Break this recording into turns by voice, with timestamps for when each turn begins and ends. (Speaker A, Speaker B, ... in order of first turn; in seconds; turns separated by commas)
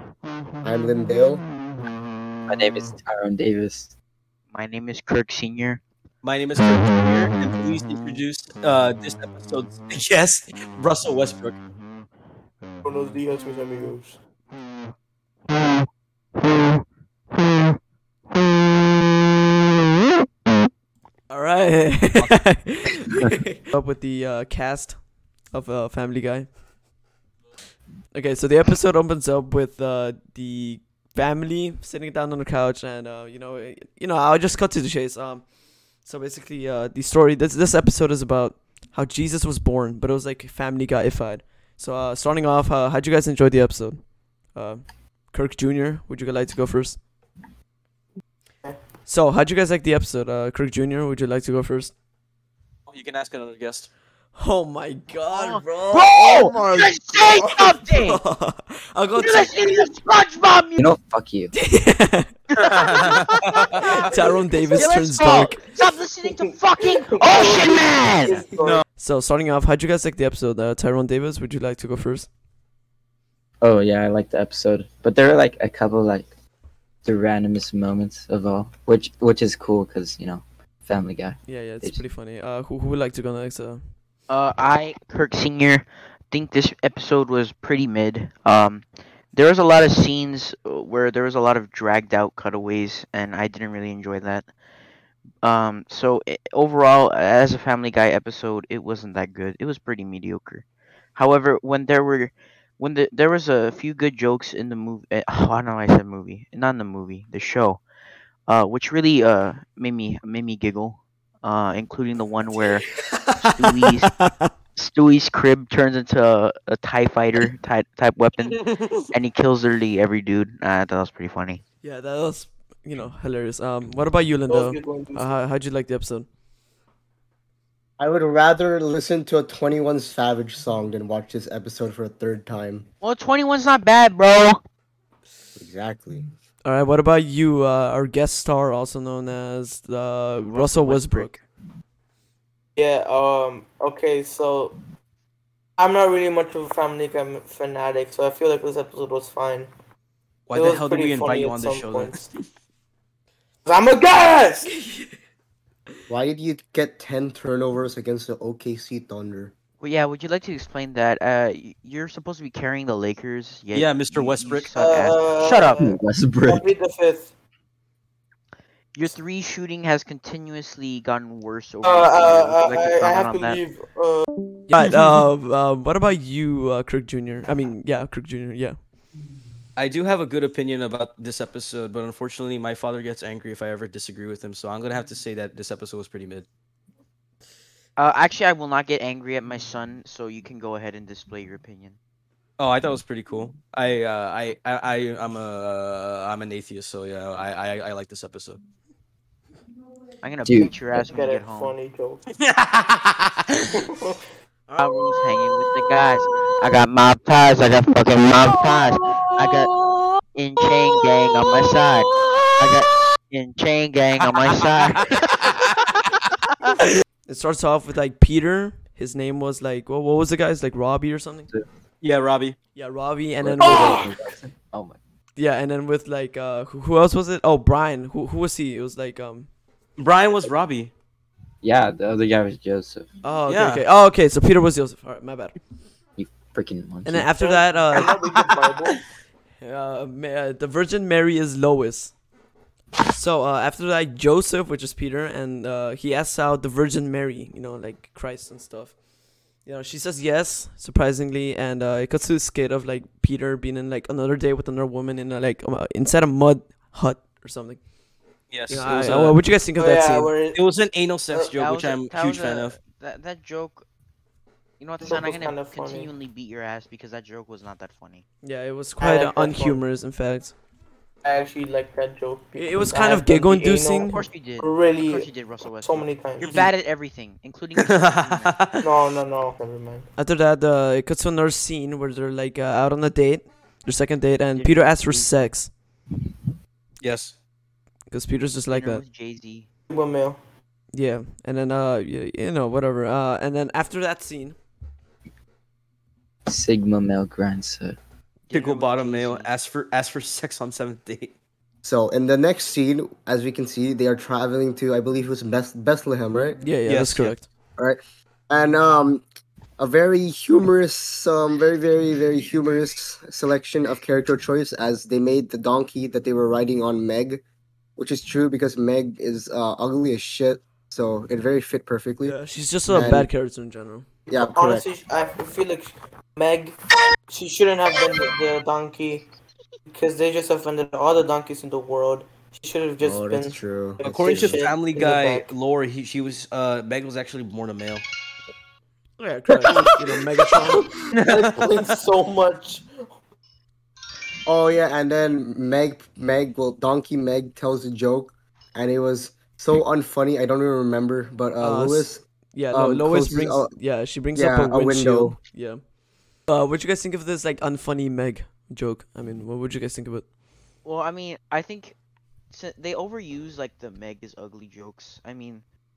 Speaker A: 0.6-1.4, Speaker B: 2.5-3.9, Speaker C: 4.5-5.8, Speaker D: 6.2-11.6, Speaker E: 12.8-14.2, Speaker F: 21.3-25.0, Speaker F: 25.5-26.5, Speaker F: 28.1-35.5, Speaker F: 36.0-44.0, Speaker F: 44.5-47.0, Speaker F: 49.0-51.9, Speaker D: 52.9-53.9, Speaker F: 54.3-56.8, Speaker C: 55.3-58.2, Speaker F: 57.9-59.5, Speaker C: 59.2-60.9, Speaker B: 60.8-61.5, Speaker F: 61.5-62.3, Speaker C: 62.5-63.8, Speaker D: 62.6-63.8, Speaker F: 63.8-65.6, Speaker C: 64.7-68.5, Speaker E: 66.2-68.8, Speaker F: 69.0-72.3, Speaker B: 73.6-76.3, Speaker B: 77.0-82.0, Speaker F: 81.5-83.8, Speaker C: 84.3-94.5, Speaker C: 95.4-100.6, Speaker C: 101.2-107.8, Speaker C: 108.5-112.9, Speaker C: 113.4-114.2, Speaker F: 113.8-114.5, Speaker C: 114.8-118.6, Speaker D: 118.5-119.1, Speaker C: 119.1-121.6, Speaker F: 121.8-126.3, Speaker E: 124.5-125.4, Speaker A: 128.0-132.8, Speaker C: 133.0-134.6, Speaker A: 135.6-136.2, Speaker F: 136.6-141.4, Speaker C: 140.4-141.3, Speaker E: 142.8-144.8, Speaker E: 145.8-149.7, Speaker D: 150.5-152.2, Speaker E: 150.5-152.3, Speaker E: 153.7-154.7, Speaker F: 154.6-155.2, Speaker A: 156.1-159.5, Speaker C: 159.8-165.9, Speaker D: 163.7-164.7, Speaker E: 164.7-167.3, Speaker B: 165.8-166.7, Speaker C: 168.9-173.6, Speaker E: 171.8-174.3, Speaker F: 174.7-178.8, Speaker D: 179.8-186.5, Speaker C: 188.0-192.0, Speaker D: 192.6-198.6, Speaker C: 200.2-201.8, Speaker B: 200.4-200.7, Speaker E: 200.6-202.2, Speaker D: 202.3-203.6, Speaker E: 203.7-204.2, Speaker C: 204.7-209.7, Speaker C: 210.3-215.2, Speaker F: 217.3-221.5, Speaker D: 222.0-222.6, Speaker F: 222.7-224.1, Speaker B: 223.4-225.0, Speaker D: 223.6-224.0, Speaker F: 225.3-229.5, Speaker D: 230.0-230.9, Speaker B: 231.6-233.1, Speaker F: 233.2-235.6, Speaker D: 233.5-233.8, Speaker B: 236.2-237.3, Speaker F: 237.0-238.1, Speaker E: 237.4-239.0, Speaker F: 239.6-242.1, Speaker F: 243.1-248.9, Speaker F: 249.6-257.8, Speaker D: 258.5-259.4, Speaker F: 258.7-260.3, Speaker E: 259.8-260.6, Speaker D: 260.5-262.8, Speaker E: 261.3-261.6, Speaker C: 261.5-263.9, Speaker C: 264.8-268.2, Speaker E: 265.0-266.1, Speaker F: 268.4-270.6, Speaker E: 269.0-269.8, Speaker E: 271.2-275.3, Speaker F: 272.6-274.2, Speaker C: 274.0-278.6, Speaker E: 275.8-276.5, Speaker D: 276.4-276.7, Speaker D: 277.8-278.8, Speaker E: 278.8-280.1, Speaker F: 280.2-285.7, Speaker C: 284.5-285.3, Speaker D: 287.0-287.4, Speaker F: 288.1-289.0, Speaker C: 288.7-289.7, Speaker E: 289.9-290.4, Speaker F: 290.9-294.6, Speaker B: 296.4-298.0, Speaker C: 298.5-299.5, Speaker D: 298.5-301.3, Speaker A: 301.8-306.6, Speaker F: 306.6-307.5, Speaker D: 306.8-307.3, Speaker A: 307.8-309.2, Speaker A: 309.8-317.4, Speaker A: 318.0-322.4, Speaker F: 322.2-324.1, Speaker A: 322.9-323.3, Speaker A: 324.3-324.8, Speaker E: 324.3-326.7, Speaker E: 327.3-329.2, Speaker E: 329.9-335.5, Speaker A: 333.0-334.6, Speaker D: 334.2-338.0, Speaker F: 339.2-340.9, Speaker E: 339.5-339.9, Speaker E: 340.6-342.9, Speaker D: 341.2-341.9, Speaker A: 344.4-353.7, Speaker F: 351.6-355.8, Speaker A: 354.3-355.4, Speaker F: 356.5-360.2, Speaker C: 360.8-361.9, Speaker C: 362.5-365.6